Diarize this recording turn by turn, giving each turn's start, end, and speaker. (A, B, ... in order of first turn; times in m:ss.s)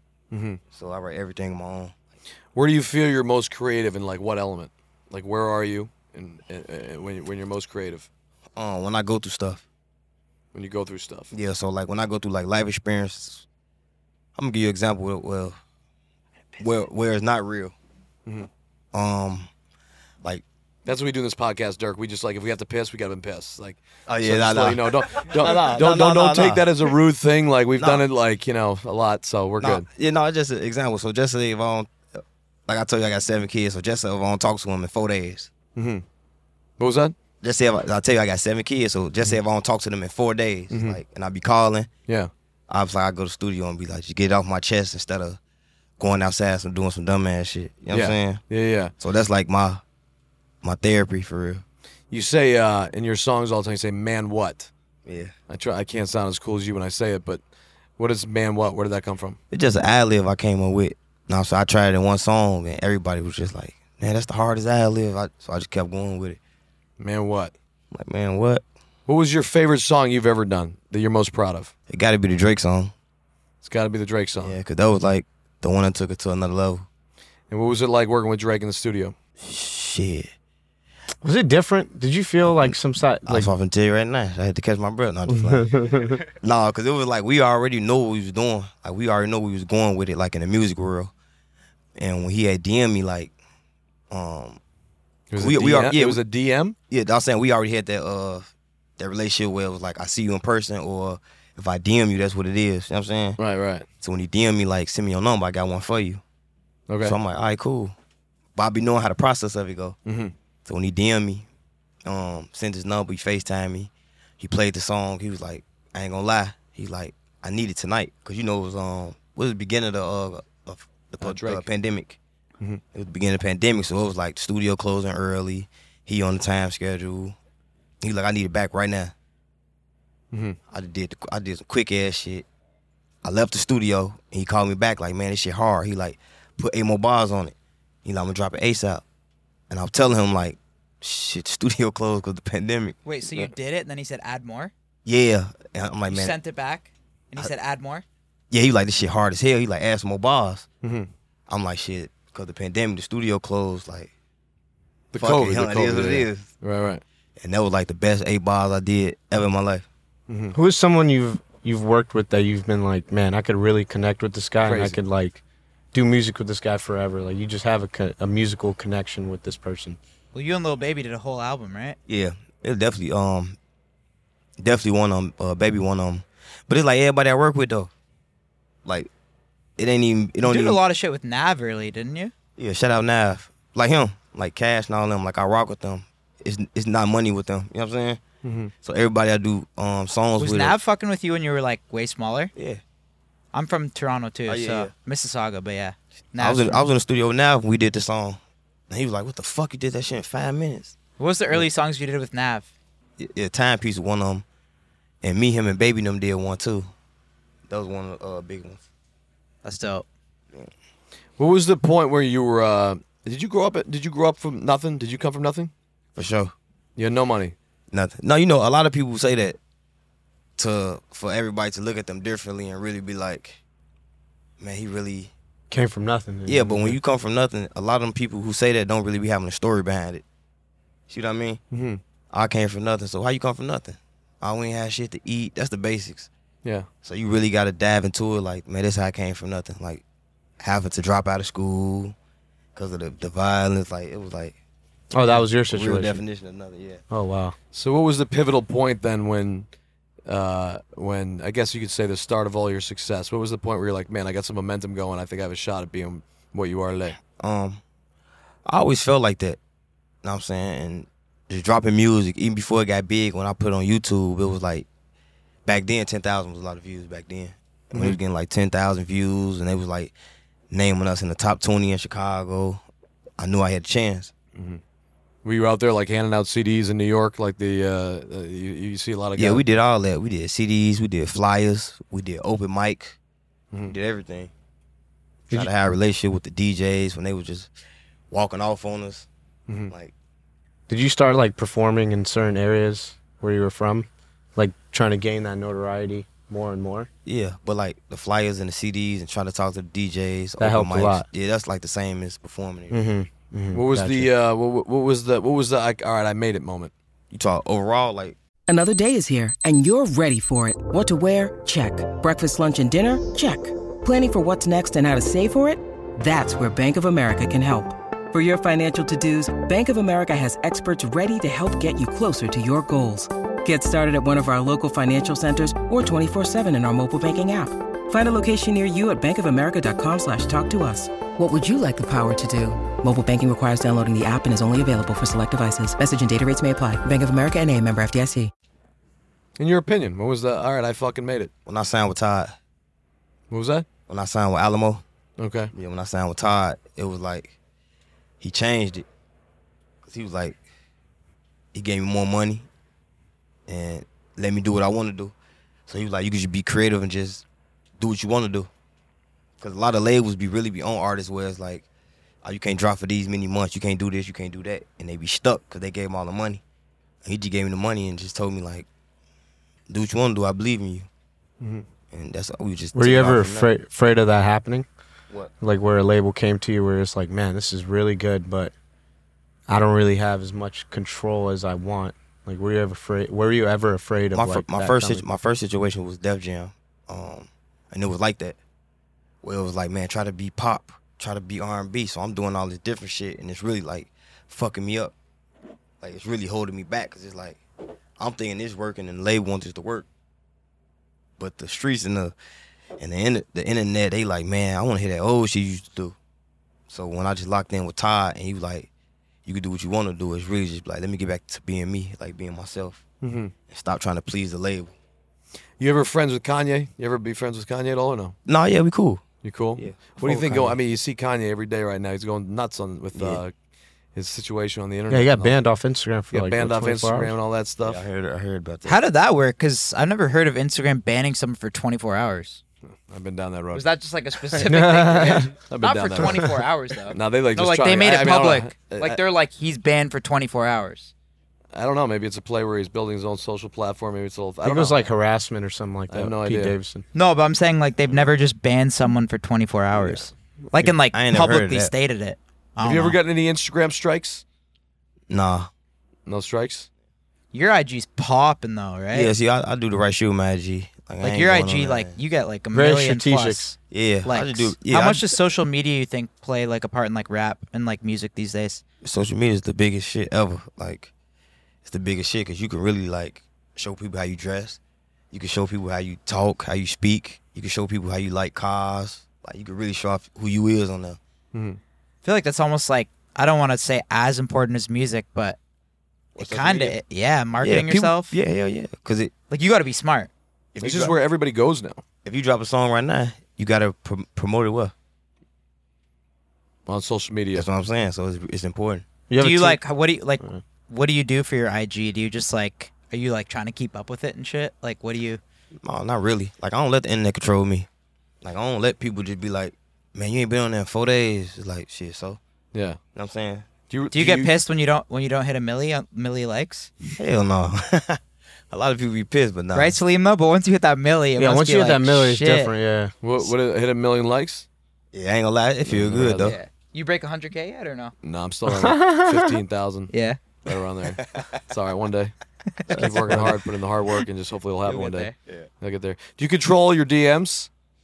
0:00.3-0:00.6 A
0:00.7-0:01.9 B
0:02.5-0:08.1 A
0:08.6-0:09.6 B
0:10.5-0:11.3 A
0:11.3-0:13.4 B
0:14.4-0:15.6 B
0:16.6-0:17.7 B
0:18.9-0:19.5 B
0:20.8-0:29.8 A
0:24.1-0:26.7 B
0:27.8-0:28.0 B
0:29.6-0:35.5 B
0:35.8-0:36.0 A
0:36.8-0:37.1 A
0:37.4-0:41.9 B
0:40.7-0:41.0 A
0:42.7-0:45.4 B
0:46.0-0:48.4 B
0:47.9-0:48.9 A
0:49.0-0:49.8 B
0:50.6-0:51.6 B
0:52.1-0:54.7 A
0:55.0-0:55.3 B
0:55.5-0:57.4 A
0:58.0-0:59.4 A
0:59.5-1:06.4 B
1:07.0-1:07.5 A
1:07.9-1:08.6 B
1:09.1-1:11.7 A
1:11.9-1:12.9 B
1:13.6-1:14.6 A
1:14.4-1:16.9 B
1:17.5-1:19.1 A
1:19.4-1:20.3 B
1:21.2-1:23.5 C
1:22.4-1:25.7 B
1:25.3-1:26.2 C
1:26.4-1:31.1 B
1:32.0-1:33.3 B
1:34.1-1:34.6 B
1:35.3-1:36.8 A
1:35.4-1:36.2 B
1:36.9-1:43.4 B
1:43.4-1:43.8 A
1:44.0-1:46.2 B
1:46.9-1:47.2 A
1:47.0-1:47.9 B
1:48.6-1:50.0 B
1:50.0-1:50.3 A
1:50.6-1:51.4 B
1:52.0-2:02.2 B
2:01.2-2:01.6 A
2:02.9-2:07.4 B
2:08.0-2:09.1 B
2:10.3-2:10.6 A
2:10.7-2:12.4 B
2:13.2-2:19.0 B
2:19.7-2:23.5 B
2:23.0-2:24.7 D
2:25.0-2:26.4 B
2:26.1-2:28.0 D
2:28.5-2:30.7 B
2:30.8-2:31.1 A
2:31.5-2:34.1 B
2:35.1-2:37.0 A
2:35.2-2:36.5 B
2:37.4-2:39.8 B
2:40.3-2:40.6 A
2:40.5-2:45.4 C
2:44.6-2:45.0 A
2:45.9-2:50.0 C
2:50.3-2:52.0 D
2:52.1-2:53.6 B
2:54.6-2:57.9 B
2:58.8-2:59.1 B
2:59.8-3:00.8 B
3:00.4-3:02.3 D
3:02.6-3:08.2 B
3:08.4-3:08.7 A
3:08.8-3:10.8 B
3:10.4-3:12.5 D
3:12.5-3:12.8 B
3:13.5-3:16.8 D
3:14.5-3:14.9 B
3:16.4-3:21.0 B
3:21.2-3:22.7 D
3:23.2-3:24.4 B
3:25.2-3:26.9 B
3:27.7-3:28.8 B
3:29.6-3:30.0 D
3:31.4-3:35.7 A
3:36.2-3:36.5 B
3:37.0-3:37.5 A
3:37.9-3:39.6 B
3:40.6-3:43.6 B
3:44.6-3:45.3 B
3:45.7-3:47.0 C
3:46.4-3:50.2 B
3:51.1-3:51.6 B
3:51.7-3:52.0 A
3:52.3-3:56.3 B
3:57.0-4:00.0 B
4:00.6-4:02.1 B
4:02.7-4:04.6 B
4:05.1-4:06.2 C
4:05.3-4:07.0 B
4:07.1-4:07.6 C
4:07.7-4:09.7 A
4:10.3-4:17.2 A
4:17.3-4:17.8 B
4:18.6-4:19.6 B
4:20.2-4:24.9 B
4:25.6-4:30.1 B
4:27.9-4:28.2 A
4:30.7-4:32.8 B
4:33.4-4:34.3 B
4:34.5-4:34.8 A
4:35.4-4:39.6 A
4:39.4-4:43.2 B
4:43.8-4:44.5 B
4:45.5-4:47.7 B
4:48.3-4:49.3 B
4:49.7-4:49.9 A
4:50.9-4:57.1 C
4:57.2-5:03.0 B
5:00.6-5:01.2 C
5:02.9-5:04.3 C
5:03.7-5:06.9 A
5:07.3-5:08.4 B
5:08.7-5:38.5 E
5:39.6-5:41.5 A
5:41.6-5:42.6 B
5:43.5-5:43.8 A
5:44.1-5:45.0 B
5:45.4-5:45.7 A
5:45.7-5:47.6 B
5:48.4-5:49.0 B
5:50.0-5:50.6 B
5:51.7-5:52.7 B
5:53.7-5:55.3 B
5:55.9-5:57.4 B
5:58.0-5:58.7 B
5:59.6-6:01.8 B
6:02.4-6:06.6 B
6:07.2-6:08.9 B
6:09.9-6:11.1 B
6:11.6-6:11.8 A
6:12.1-6:13.7 B
6:12.9-6:14.9 C
6:15.6-6:18.7 C
6:19.7-6:25.2 C
6:24.3-6:28.6 B
6:29.4-6:35.1 B
6:36.0-6:37.6 B
6:38.2-6:40.1 B
6:41.4-6:42.3 B
6:43.0-6:46.2 B
6:46.9-6:48.9 B
6:49.4-6:53.0 B
6:53.2-6:53.5 A
6:53.7-6:54.9 B
6:55.8-6:58.3 A
6:58.4-6:59.2 B
6:59.4-7:03.5 A
6:59.8-7:00.7 B
7:03.1-7:03.4 B
7:04.1-7:05.6 A
7:05.1-7:07.3 C
7:06.3-7:08.0 A
7:07.8-7:09.0 B
7:08.8-7:12.6 D
7:13.1-7:13.8 A
7:13.7-7:21.1 D
7:14.6-7:15.5 C
7:15.7-7:16.6 A
7:16.2-7:16.5 C
7:17.1-7:19.2 A
7:21.7-7:25.1 A
7:24.6-7:27.0 C
7:26.1-7:26.8 A
7:27.1-7:33.2 D
7:30.8-7:31.9 B
7:32.8-7:34.4 A
7:35.3-7:35.7 B
7:36.3-7:36.9 A
7:37.5-7:39.3 D
7:39.1-7:42.2 B
7:41.2-7:48.8 D
7:42.7-7:43.7 C
7:43.9-7:45.3 B
7:49.0-7:51.1 B
7:51.8-7:54.8 B
7:55.3-8:01.2 B
8:01.5-8:01.8 A
8:02.2-8:05.6 D
8:06.4-8:07.0 B
8:06.4-8:08.4 D
8:07.6-8:09.3 B
8:09.5-8:10.3 D
8:10.7-8:11.2 B
8:10.8-8:12.0 A
8:12.2-8:14.9 B
8:16.9-8:17.7 A
8:17.5-8:19.0 B
8:19.3-8:19.8 C
8:19.4-8:25.4 D
8:25.8-8:27.9 B
8:28.4-8:32.4 B
8:32.7-8:33.0 A
8:33.1-8:33.7 B
8:33.9-8:34.5 A
8:34.1-8:36.9 D
8:37.2-8:40.0 B
8:39.7-8:42.7 D
8:41.4-8:43.1 C
8:43.2-8:44.6 A
8:45.1-8:46.6 B
8:45.9-8:46.5 A
8:46.4-8:48.1 D
8:48.2-8:50.1 A
8:48.7-8:49.5 C
8:50.1-8:50.4 D
8:50.6-8:52.3 A
8:51.1-8:51.6 B
8:52.9-8:57.7 A
8:52.9-8:53.5 C
8:54.8-8:55.4 D